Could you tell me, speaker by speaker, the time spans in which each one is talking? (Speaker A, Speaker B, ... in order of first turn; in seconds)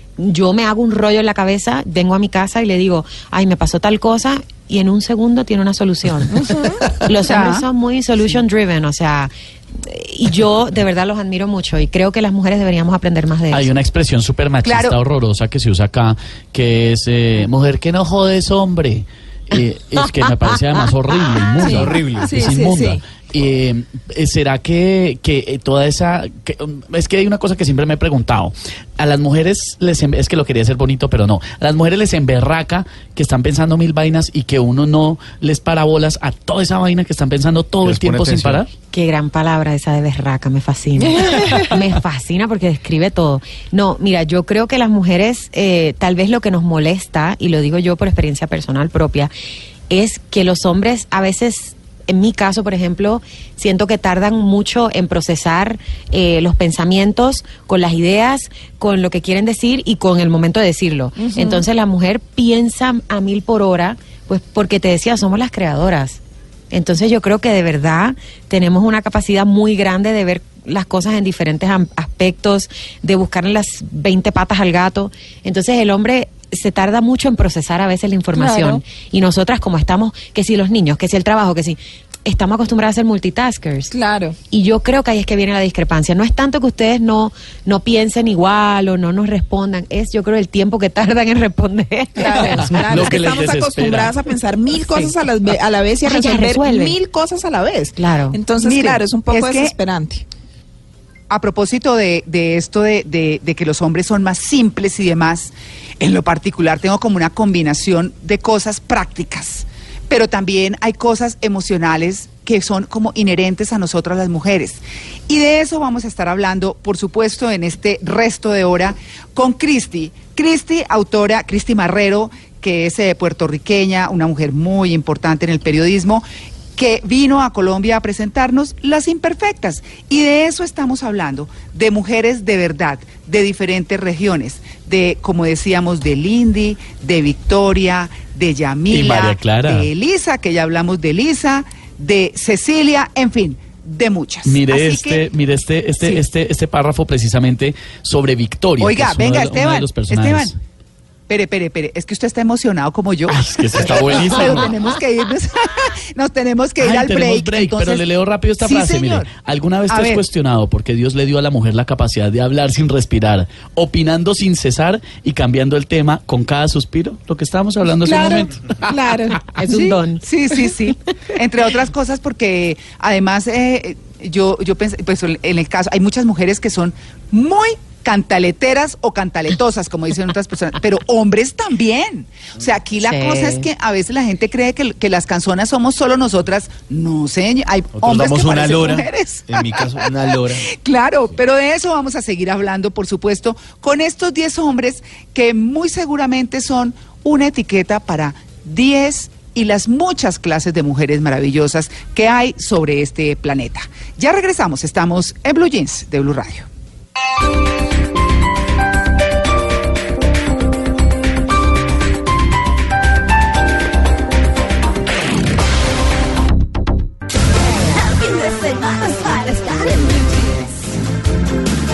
Speaker A: 0.2-13.7, 38.9-49.3, 49.9-66.2, 66.7-83.9, 84.5-93.0, 94.8-95.1, 96.0-97.0, 98.0-98.4, 169.4-170.2, 183.0-183.7
Speaker B: 6.3-6.8, 21.6-23.0, 41.1-41.7, 61.2-61.6, 78.3-78.8, 83.9-84.4, 92.2-100.2, 168.0-169.6, 217.9-220.6
Speaker C: 7.2-7.7, 14.6-14.9, 92.2-92.7, 98.6-99.7, 101.3-145.2, 148.8-150.5, 151.3-158.0, 158.6-159.3, 159.9-160.2, 169.7-190.1, 190.7-206.7
Speaker D: 13.5-38.7, 92.9-94.2, 138.9-139.9, 144.4-150.5, 153.3-154.7, 156.8-168.7
Speaker E: 21.6-22.4, 37.8-38.6, 187.9-190.7